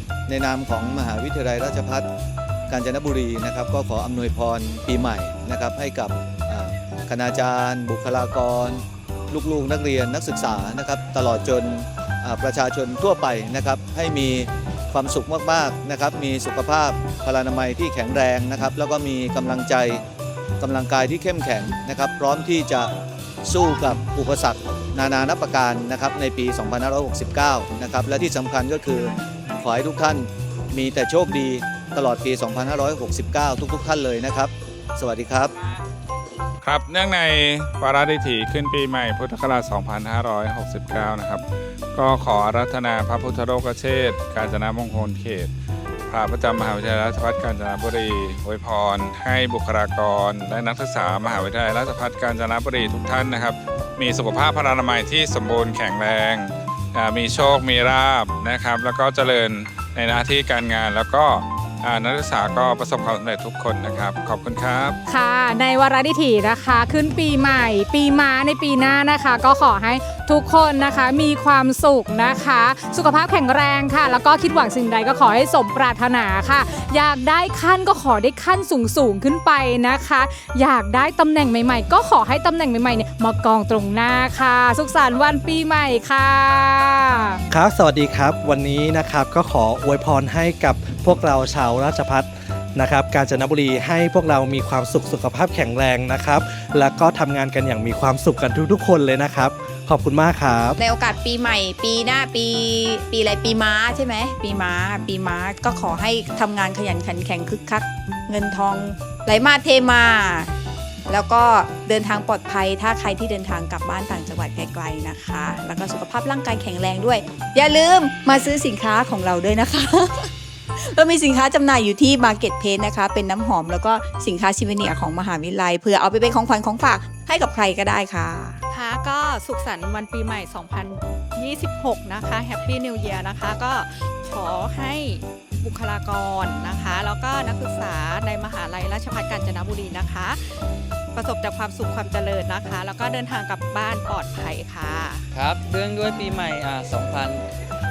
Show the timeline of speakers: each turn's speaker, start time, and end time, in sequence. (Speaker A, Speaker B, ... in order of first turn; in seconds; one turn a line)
Speaker A: 0.3-2.1
Speaker A: 2.7-20.0
Speaker A: 20.6-22.9
Speaker A: 23.4-35.5
Speaker B: 36.6-41.4
Speaker B: 41.9-45.5
Speaker B: 46.1-65.0
Speaker C: 65.0-87.4
Speaker D: 87.5-100.8
Speaker E: 100.8-110.5
Speaker E: 111.1-128.6
Speaker F: 128.7-140.5
Speaker F: 141.1-145.2
Speaker G: 145.3-147.4